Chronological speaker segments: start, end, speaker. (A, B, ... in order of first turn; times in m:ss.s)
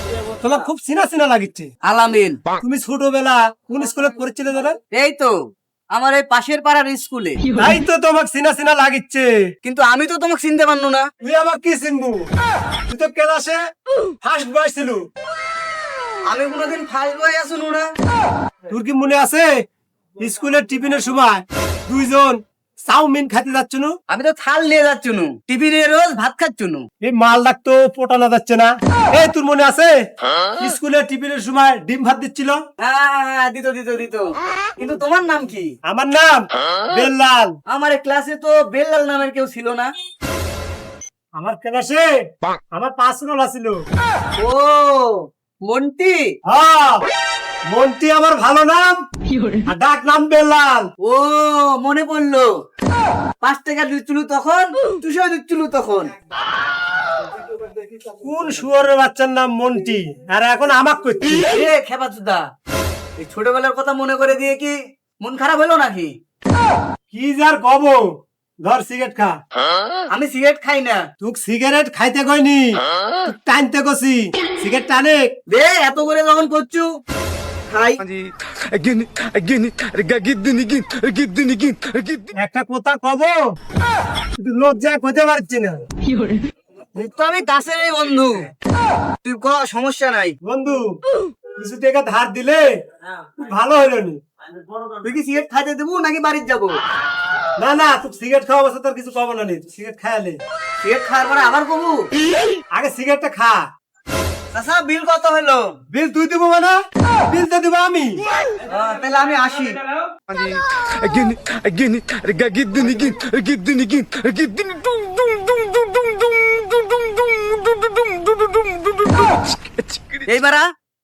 0:00.4-0:01.7 A
0:01.9-0:02.4 B
0:02.6-0:04.8 A
0:04.9-0:05.3 B
0:05.9-0:07.4 B
0:07.6-0:09.3 A
0:09.6-0:11.0 B
0:11.2-0:12.2 A
0:12.9-0:13.6 A
0:14.2-0:15.0 A
0:16.3-0:17.9 B
0:18.7-0:19.5 A
0:20.2-0:23.9 A
0:24.1-0:26.8 B
0:27.0-0:29.9 A
0:30.6-0:32.6 A
0:32.8-0:35.7 B
0:35.9-0:37.5 A
0:37.7-0:39.9 B
0:41.4-0:42.1 A
0:42.7-0:43.8 A
0:44.4-0:46.3 B
0:46.5-0:47.1 A
0:47.7-0:49.0 A
0:49.7-0:50.8 A
0:51.1-0:52.5 B
0:53.4-0:56.1 B
0:58.2-1:01.5 A
1:01.5-1:02.4 B
1:03.2-1:06.1 B
1:07.1-1:08.0 A
1:08.6-1:09.3 A
1:10.1-1:11.0 B
1:11.2-1:15.2 A
1:15.5-1:16.9 B
1:17.7-1:18.0 B
1:18.2-1:22.3 C
1:22.4-1:23.4 A
1:24.4-1:25.8 A
1:27.0-1:28.5 B
1:29.2-1:30.3 B
1:30.4-1:31.0 A
1:31.6-1:32.6 A
1:33.2-1:34.2 A
1:35.0-1:36.8 B
1:37.6-1:40.4 A
1:40.8-1:42.0 B
1:42.8-1:43.6 A
1:44.5-1:45.7 B
1:45.9-1:48.2 A
1:48.7-1:49.8 B
1:50.3-1:59.6 C
2:00.2-2:00.7 B